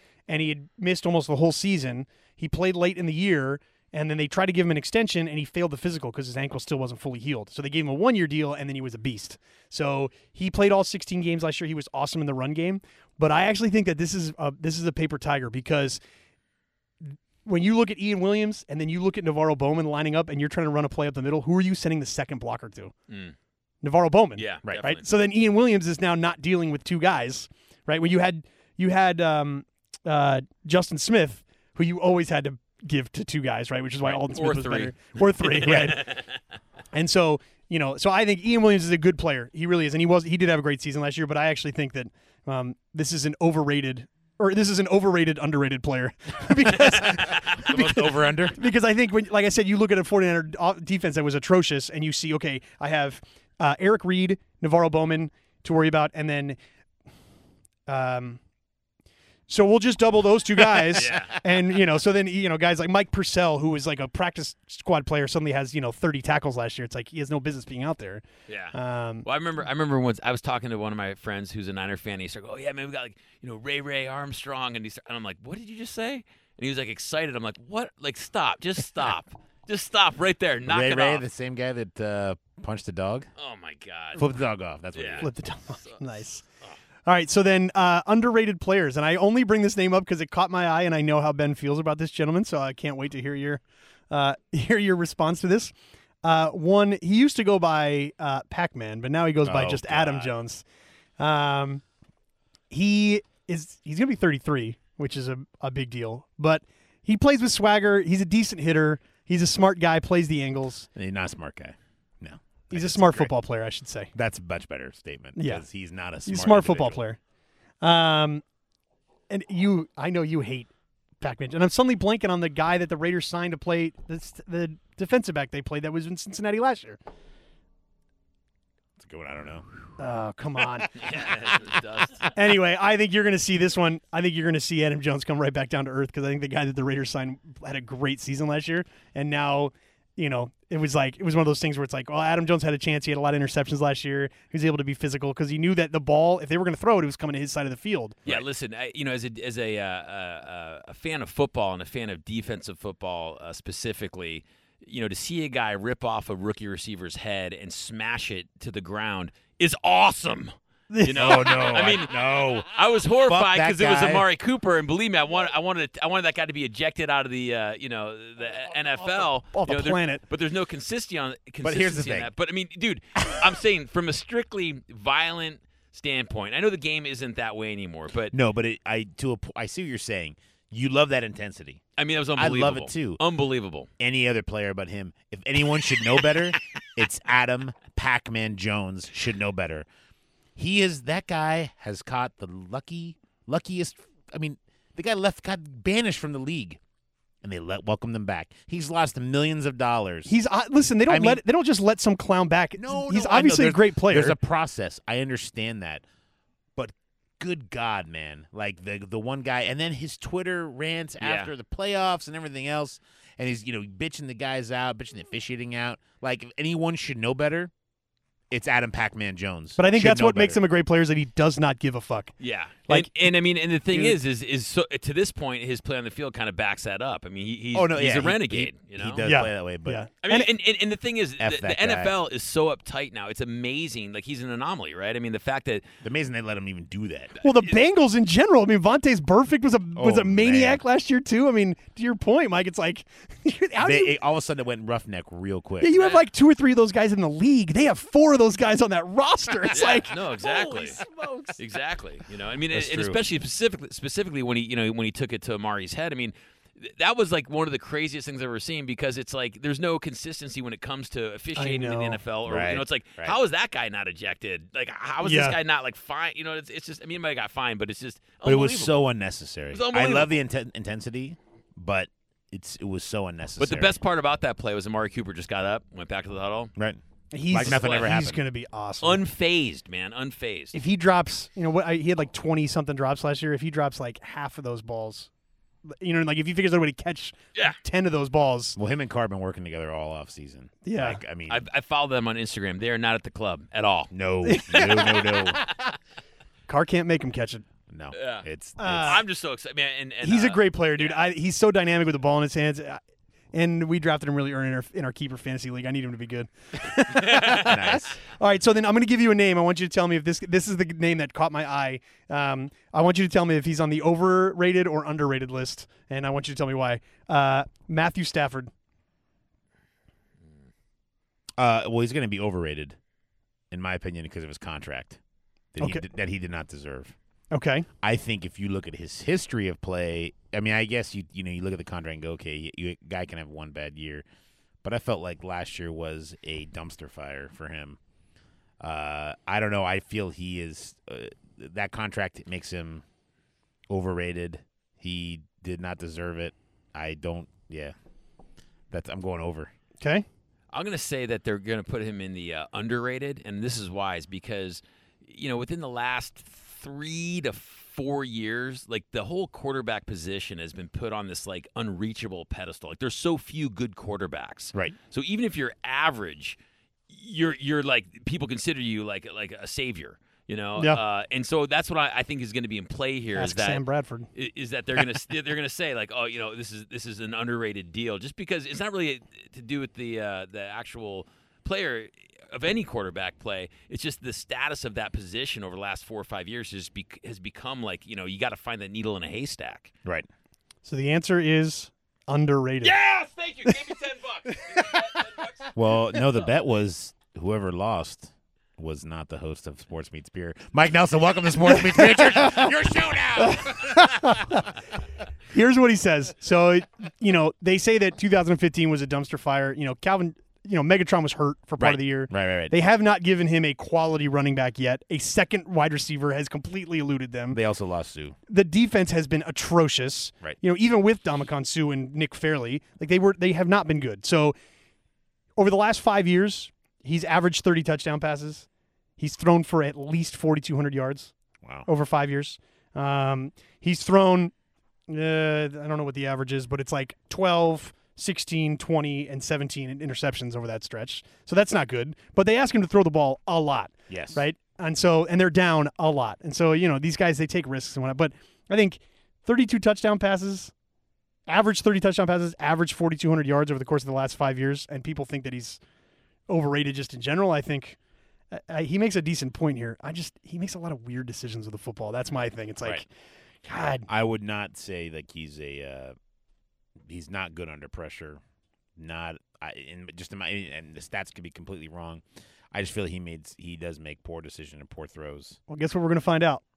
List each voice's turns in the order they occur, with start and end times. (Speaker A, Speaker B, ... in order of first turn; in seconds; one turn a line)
Speaker A: 0.3-16.0
Speaker A: 17.0-22.9
Speaker B: 23.1-23.4
Speaker A: 23.8-36.1
Speaker B: 24.4-25.0
Speaker B: 34.0-36.4
Speaker A: 36.9-56.6
Speaker B: 46.9-47.8
Speaker C: 47.0-48.6
Speaker A: 57.9-58.4
Speaker A: 59.5-69.3
Speaker B: 60.9-61.4
Speaker B: 68.5-81.2
Speaker C: 80.7-83.3
Speaker B: 83.4-84.2
Speaker C: 84.2-85.3
Speaker B: 84.9-85.3
Speaker A: 85.2-86.5
Speaker A: 87.0-100.6
Speaker C: 99.4-100.3
Speaker A: 101.2-101.8
Speaker A: 102.7-110.9
Speaker C: 111.0-113.3
Speaker A: 112.7-114.1
Speaker C: 114.1-117.0
Speaker A: 115.4-115.6
Speaker A: 116.2-117.2
Speaker A: 117.8-118.4
Speaker A: 119.3-127.0
Speaker C: 129.0-129.9
Speaker A: 130.0-130.9
Speaker B: 130.9-132.4
Speaker A: 132.3-148.3
Speaker B: 148.2-178.3
Speaker A: 160.9-161.8
Speaker C: 161.1-162.7
Speaker C: 163.2-164.3
Speaker A: 169.5-170.2
Speaker C: 171.6-172.3
Speaker C: 178.3-181.8
Speaker B: 182.0-183.9
Speaker C: 182.4-183.2
Speaker C: 184.0-189.9
Speaker B: 186.1-186.5
Speaker C: 190.6-196.8
Speaker C: 197.4-200.3
Speaker A: 200.3-204.4
Speaker C: 201.1-201.4
Speaker C: 202.8-206.0
Speaker C: 206.8-217.7
Speaker B: 211.2-211.5
Speaker C: 218.5-220.6
Speaker A: 219.8-222.3
Speaker B: 222.4-229.2
Speaker A: 223.9-224.2
Speaker C: 227.7-230.0
Speaker A: 229.2-230.5
Speaker B: 230.2-235.9
Speaker C: 231.4-232.2
Speaker C: 236.0-237.3
Speaker A: 237.4-244.2
Speaker C: 239.9-240.8
Speaker C: 243.8-246.0
Speaker A: 245.8-251.6
Speaker B: 245.9-246.2
Speaker B: 249.7-251.0
Speaker B: 251.6-269.0
Speaker C: 252.7-253.2
Speaker A: 261.6-262.2
Speaker C: 262.4-263.4
Speaker A: 265.2-265.6
Speaker C: 268.4-274.0
Speaker B: 269.7-270.4
Speaker B: 273.6-276.7
Speaker C: 276.8-278.4
Speaker A: 277.3-279.2
Speaker B: 277.6-278.2
Speaker B: 279.0-280.8
Speaker A: 280.7-285.3
Speaker A: 285.9-288.8
Speaker C: 288.8-291.6
Speaker A: 290.8-291.2
Speaker B: 291.5-294.1
Speaker C: 294.1-295.6
Speaker A: 294.4-295.5
Speaker B: 294.7-295.9
Speaker A: 296.7-297.6
Speaker C: 297.9-299.2
Speaker B: 298.1-298.5
Speaker A: 298.8-299.2
Speaker B: 299.0-301.2
Speaker A: 300.2-303.0
Speaker A: 303.5-318.7
Speaker B: 307.1-307.7
Speaker C: 307.4-308.2
Speaker C: 321.6-323.0
Speaker C: 323.7-325.2
Speaker C: 325.8-327.2
Speaker A: 327.5-327.9
Speaker C: 328.0-334.2
Speaker C: 334.8-338.0
Speaker C: 338.8-343.0
Speaker C: 343.9-347.9
Speaker C: 348.9-349.7
Speaker A: 350.0-350.3
Speaker B: 350.7-366.6
Speaker B: 367.1-373.8
Speaker A: 370.8-371.0
Speaker A: 373.4-374.3
Speaker B: 374.3-389.9
Speaker A: 390.8-393.0
Speaker B: 392.8-395.7
Speaker A: 394.7-395.1
Speaker C: 395.8-404.6
Speaker A: 401.7-402.7
Speaker A: 403.4-404.7
Speaker A: 405.5-417.6
Speaker C: 411.8-412.8
Speaker C: 417.5-418.4
Speaker A: 418.5-424.6
Speaker A: 425.6-428.7
Speaker A: 429.2-431.3
Speaker C: 431.6-431.9
Speaker A: 431.9-434.5
Speaker A: 435.1-450.7
Speaker C: 444.1-444.5
Speaker A: 451.5-455.8
Speaker A: 456.5-458.0
Speaker A: 458.5-463.1
Speaker A: 463.6-464.1
Speaker C: 464.1-466.1
Speaker C: 467.1-468.4
Speaker C: 469.0-475.6
Speaker A: 475.7-476.6